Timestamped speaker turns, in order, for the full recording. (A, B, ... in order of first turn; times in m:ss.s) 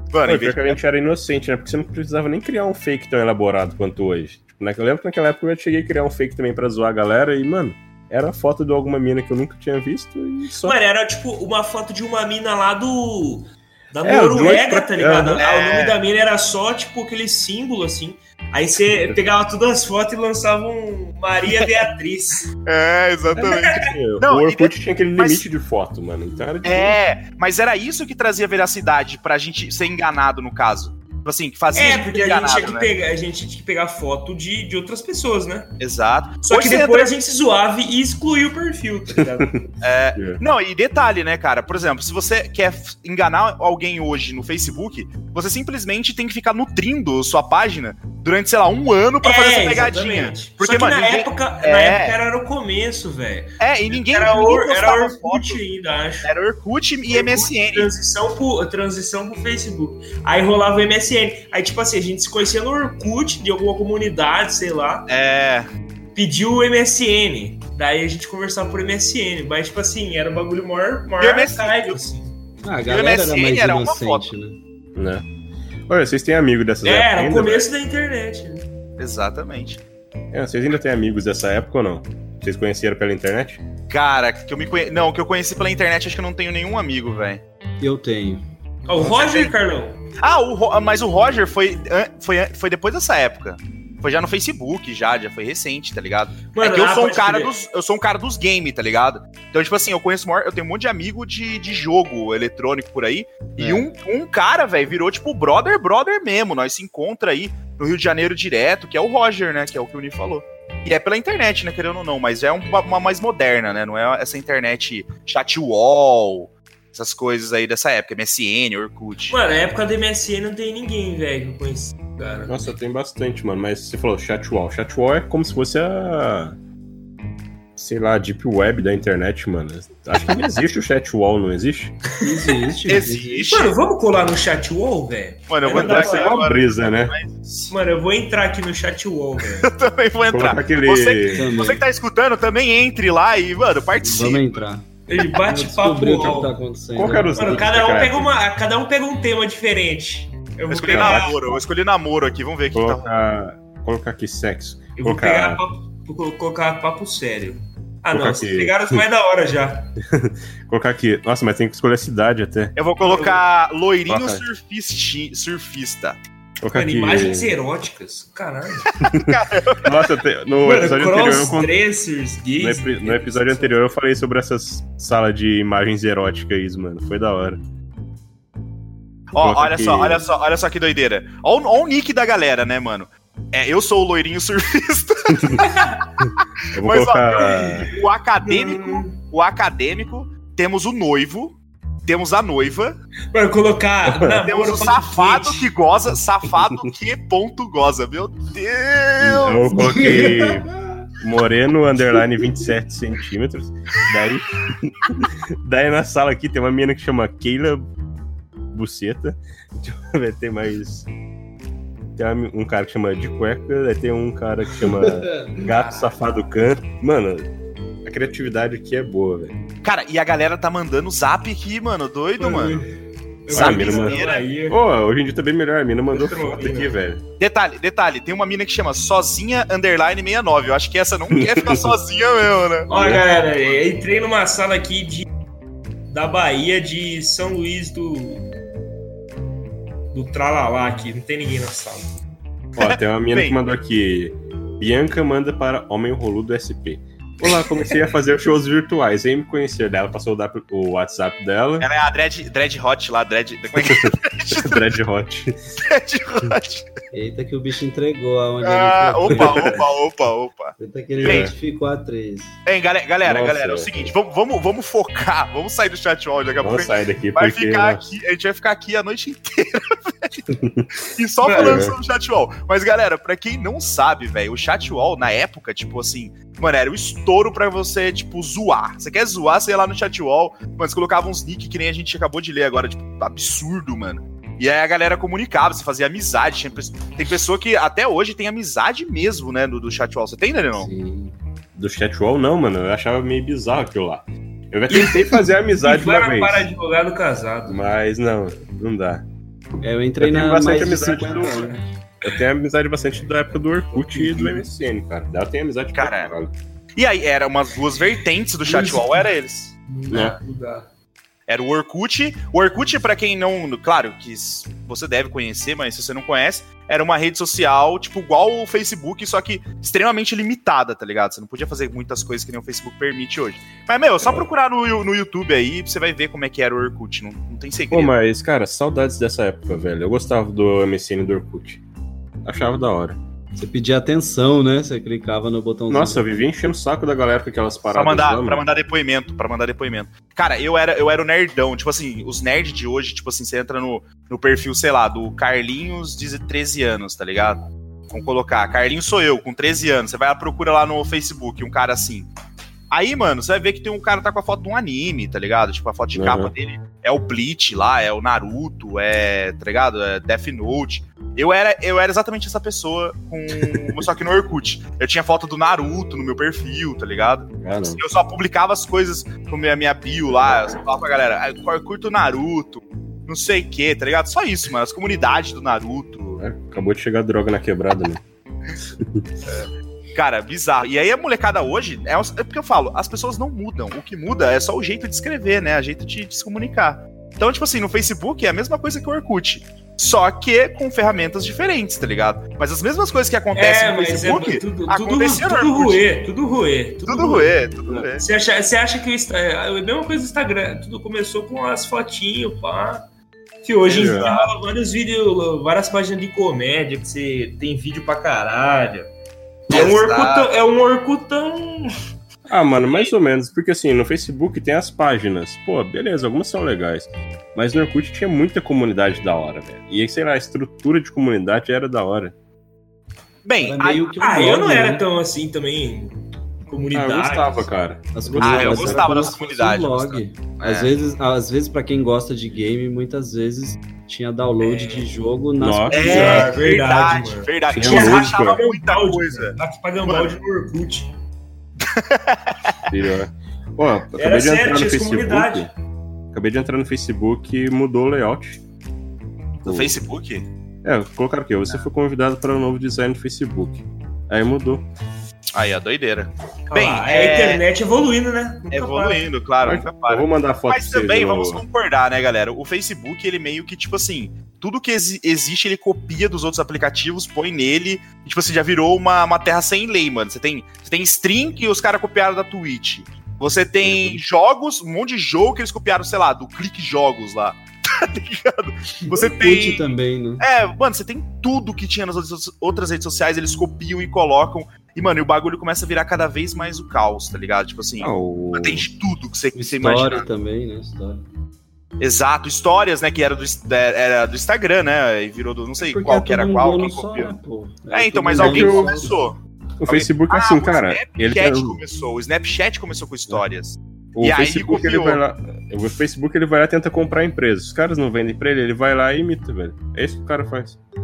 0:00.1-0:00.8 A
0:00.2-0:10.8 B
0:10.6-0:22.5 C
0:14.0-0:15.4 B
0:15.4-0:16.0 A
0:18.9-0:19.2 B
0:22.6-0:25.4 A
0:23.3-0:27.0 B
0:23.4-0:23.9 C
0:26.6-0:32.9 A
0:31.7-0:35.7 C
0:35.8-0:37.1 A
0:36.4-0:39.5 C
0:39.2-0:40.4 B
0:39.8-0:52.2 A
0:49.2-0:56.3 C
0:53.6-0:55.6 A
0:56.2-0:57.9 A
0:57.1-1:05.1 C
1:05.1-1:05.7 A
1:06.1-1:12.3 C
1:11.2-1:12.0 A
1:12.6-1:14.6 D
1:12.9-1:14.3 A
1:14.9-1:15.2 B
1:15.9-1:17.7 B
1:16.8-1:18.6 C
1:19.0-1:19.8 A
1:20.3-1:23.6 B
1:23.9-1:27.4 A
1:27.8-1:28.4 D
1:28.9-1:30.0 C
1:29.0-1:29.5 A
1:30.2-1:59.4 A
1:36.5-1:37.5 C
1:43.6-1:43.8 D
1:59.3-2:02.6 C
2:02.5-2:06.6 B
2:07.8-2:11.9 B
2:12.2-2:13.5 D
2:12.9-2:13.8 A
2:13.5-2:16.4 C
2:15.5-2:17.7 A
2:15.7-2:17.2 B
2:17.7-2:19.7 C
2:19.6-2:24.6 A
2:20.3-2:21.5 B
2:21.3-2:21.8 D
2:24.0-2:27.7 D
2:25.1-2:26.5 C
2:26.9-2:28.4 B
2:27.4-2:31.6 C
2:30.7-2:33.1 A
2:30.8-2:31.3 B
2:32.7-2:35.6 B
2:35.0-2:39.9 C
2:38.1-2:39.0 B
2:40.0-2:42.7 B
2:42.7-2:46.2 A
2:43.0-2:43.4 C
2:44.1-2:44.4 B
2:46.6-2:47.5 B
2:46.7-2:48.9 C
2:49.0-2:51.7 B
2:49.1-2:50.1 A
2:50.6-2:53.8 C
2:52.6-2:57.6 B
2:59.3-3:05.7 A
2:59.4-3:00.2 B
3:05.3-3:05.6 B
3:05.6-3:06.0 C
3:06.2-3:07.9 B
3:06.8-3:13.0 A
3:07.5-3:07.8 C
3:08.4-3:09.1 C
3:13.3-3:15.7 C
3:14.0-3:14.4 B
3:14.4-3:20.3 A
3:19.2-3:27.9 B
3:19.7-3:20.4 C
3:28.7-3:31.1 B
3:32.2-3:37.4 B
3:35.5-3:36.1 C
3:38.0-3:39.6 B
3:39.8-3:42.8 A
3:42.4-3:42.9 C
3:43.4-3:44.8 C
3:43.5-3:47.2 B
3:43.5-3:44.5 A
3:46.1-3:46.9 C
3:47.4-3:52.9 A
3:51.3-3:52.0 B
3:52.9-3:55.2 C
3:52.9-3:53.2 B
3:56.1-3:58.5 C
4:00.1-4:02.1 C
4:02.8-4:11.9 B
4:02.8-4:03.6 A
4:11.8-4:14.8 A
4:13.8-4:15.5 B
4:15.9-4:17.0 A
4:17.1-4:19.8 D
4:18.6-4:21.5 A
4:19.3-4:19.6 B
4:20.8-4:22.6 D
4:21.2-4:21.5 B
4:22.6-4:30.5 A
4:23.2-4:24.1 B
4:26.6-4:28.0 B
4:30.5-4:30.9 B
4:31.0-4:50.9 A
4:31.4-4:31.9 C
4:31.6-4:31.9 B
4:50.7-4:51.3 D
4:51.8-4:56.7 B
4:54.9-4:57.8 C
4:57.6-4:59.2 B
4:59.8-5:01.8 D
5:00.2-5:06.5 B
5:01.4-5:01.8 C
5:03.6-5:04.6 C
5:05.9-5:06.3 A
5:07.0-5:09.7 A
5:08.6-5:09.3 C
5:09.9-5:10.9 C
5:10.1-5:10.4 B
5:11.5-5:28.1 A
5:24.2-5:24.5 B
5:27.9-5:31.8 B
5:32.4-5:33.2 B
5:33.6-5:36.3 D
5:35.9-5:38.6 B
5:37.9-5:52.3 A
5:52.9-6:16.4 A
5:56.1-5:56.5 B
6:03.6-6:04.0 B
6:07.6-6:08.0 B
6:16.4-6:18.2 B
6:18.9-6:19.3 B
6:19.4-6:36.0 A
6:33.5-6:37.6 C
6:37.0-6:38.2 A
6:38.2-6:43.0 C
6:43.6-6:49.1 C
6:43.8-6:44.5 A
6:43.9-6:44.3 B
6:49.7-6:51.9 C
6:49.7-6:50.5 A
6:52.5-7:02.3 B
7:03.4-7:04.2 A
7:03.6-7:05.0 D
7:04.2-7:07.7 C
7:06.9-7:09.1 B
7:08.1-7:16.5 D
7:08.4-7:10.9 A
7:15.6-7:16.5 B
7:15.9-7:20.4 A
7:16.0-7:21.1 C
7:17.7-7:18.6 B
7:21.8-7:22.8 A
7:22.9-7:25.7 B
7:24.2-7:25.7 C
7:26.3-7:28.6 B
7:29.6-7:30.5 A
7:29.6-7:30.0 B
7:30.8-7:34.9 B
7:35.5-7:37.6 A
7:36.7-7:39.2 C
7:38.7-8:10.2 A
7:39.6-7:41.6 B
7:53.8-7:54.2 B
7:59.1-8:00.4 D
8:08.0-8:08.9 B
8:09.5-8:11.2 D
8:12.0-8:17.3 A
8:15.8-8:19.2 D
8:17.9-8:25.2 A
8:18.3-8:19.1 B
8:19.8-8:21.8 B
8:24.1-8:30.8 B